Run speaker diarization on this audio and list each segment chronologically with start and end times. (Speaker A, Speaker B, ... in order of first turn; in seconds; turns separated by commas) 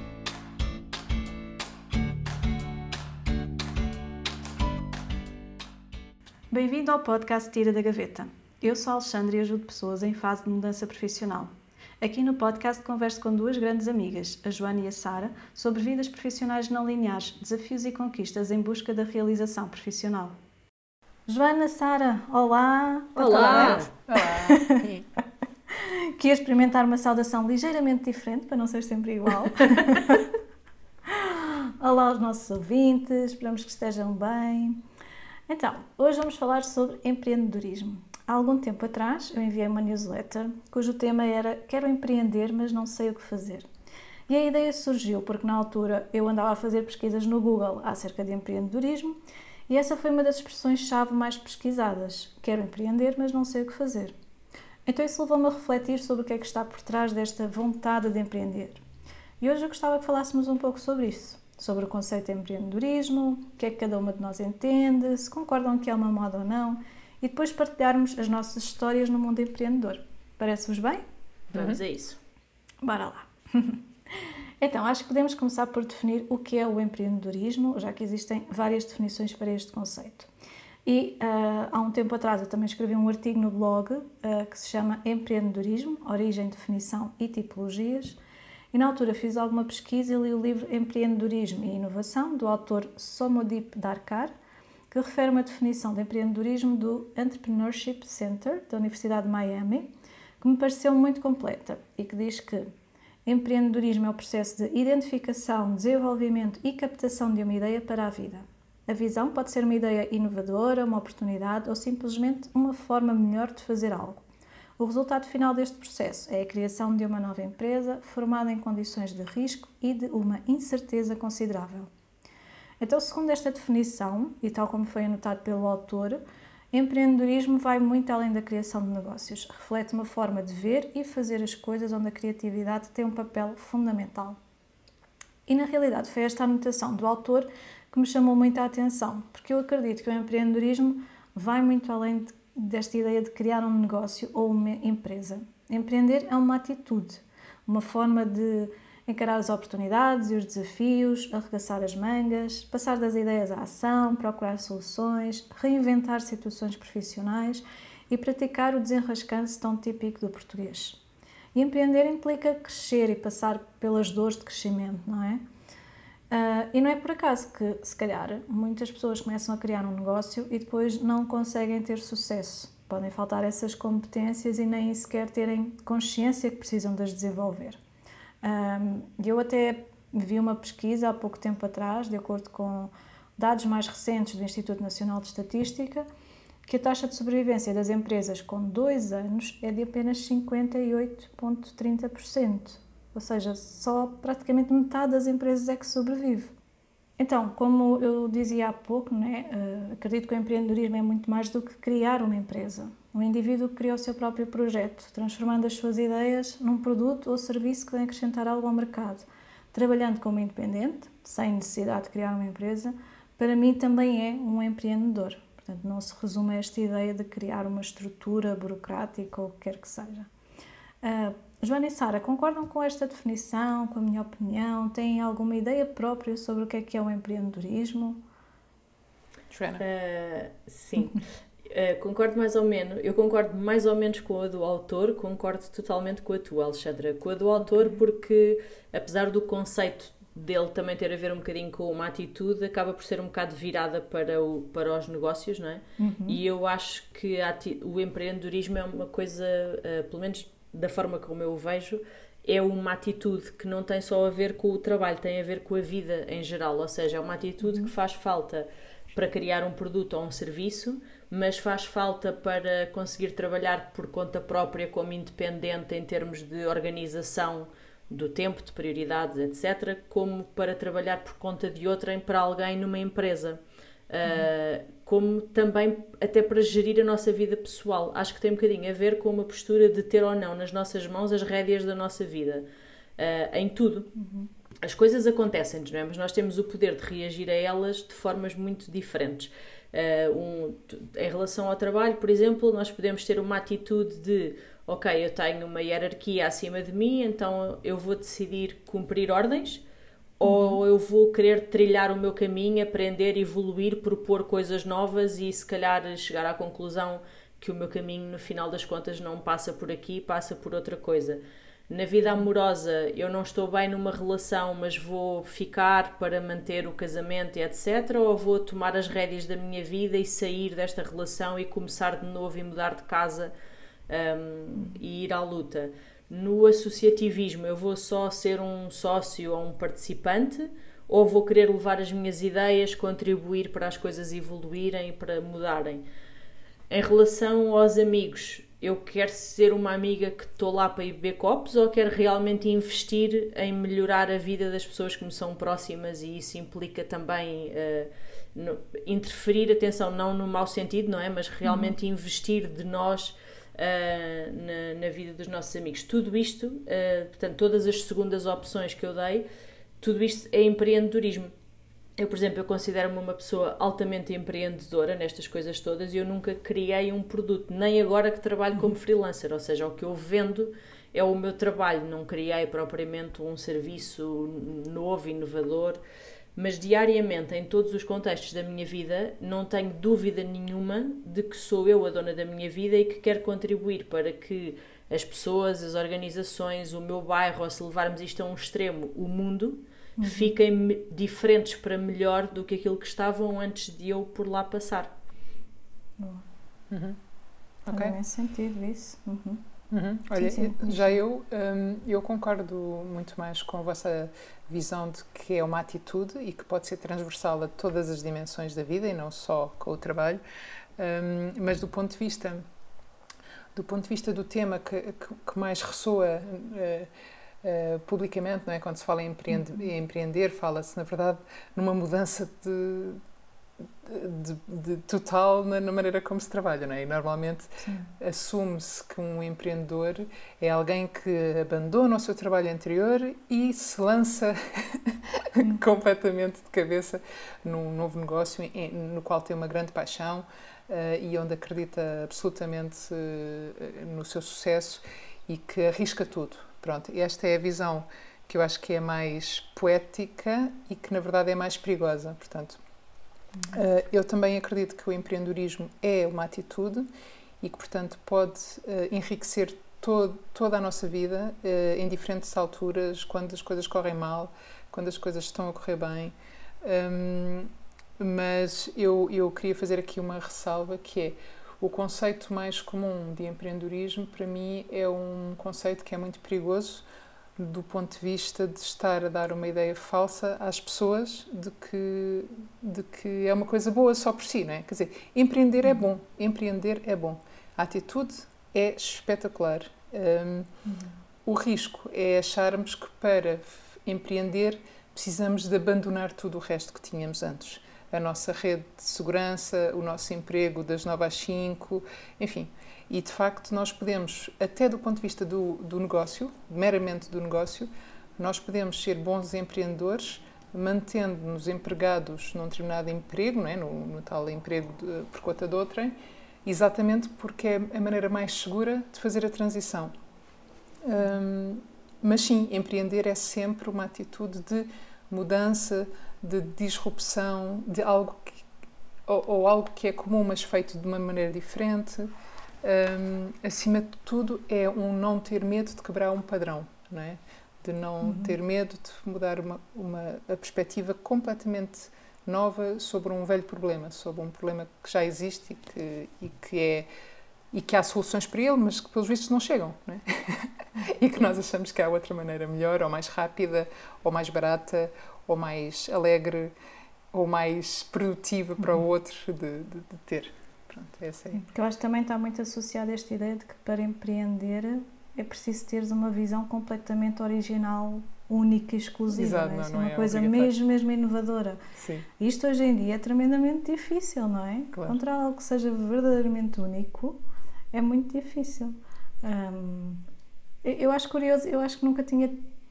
Speaker A: 6.5-20.4, Speaker A: 21.3-24.8, Speaker B: 23.2-23.9, Speaker C: 23.2-25.1, Speaker A: 25.7-30.3, Speaker A: 31.1-34.8, Speaker A: 35.5-43.7, Speaker A: 44.3-49.2, Speaker A: 49.7-54.1, Speaker A: 54.9-58.8, Speaker A: 59.4-71.0, Speaker B: 71.5-72.2, Speaker C: 71.5-71.8, Speaker A: 72.8-73.8, Speaker A: 74.6-80.3, Speaker A: 80.9-88.2, Speaker A: 88.7-94.3, Speaker A: 94.9-102.7, Speaker A: 103.3-114.2, Speaker A: 114.8-121.9, Speaker A: 122.8-126.2, Speaker A: 126.7-134.4, Speaker A: 135.5-161.0, Speaker A: 161.6-165.4, Speaker A: 166.3-177.8, Speaker A: 178.4-186.1, Speaker A: 186.7-196.5, Speaker A: 197.2-220.3, Speaker A: 221.0-228.2, Speaker C: 229.5-229.8, Speaker B: 229.8-282.7, Speaker A: 246.0-246.4, Speaker B: 283.2-284.1, Speaker A: 284.2-284.5, Speaker B: 284.8-299.9, Speaker B: 300.4-323.5, Speaker A: 300.4-300.8, Speaker B: 324.1-336.1, Speaker B: 336.9-359.5, Speaker A: 351.6-351.9, Speaker B: 360.0-361.5, Speaker B: 362.2-376.0, Speaker B: 376.6-395.1, Speaker A: 390.2-390.5, Speaker A: 396.2-396.4, Speaker C: 396.9-397.2, Speaker C: 397.9-398.2, Speaker A: 397.9-399.6, Speaker C: 399.9-410.4, Speaker A: 400.3-401.2, Speaker C: 411.0-412.6, Speaker C: 413.8-417.1, Speaker C: 417.6-423.2, Speaker C: 424.0-452.8, Speaker A: 427.8-428.1, Speaker C: 453.7-457.1, Speaker C: 457.6-477.1, Speaker C: 477.6-490.7, Speaker A: 490.9-491.1, Speaker C: 491.4-516.1, Speaker C: 516.6-520.1, Speaker C: 521.0-528.6, Speaker C: 529.3-532.3, Speaker C: 532.8-547.1, Speaker A: 538.2-538.5, Speaker C: 547.7-556.7, Speaker C: 557.3-561.6, Speaker A: 561.5-577.4, Speaker C: 569.3-570.8, Speaker C: 572.0-572.3, Speaker C: 574.9-575.2, Speaker A: 577.9-580.2, Speaker A: 580.8-582.6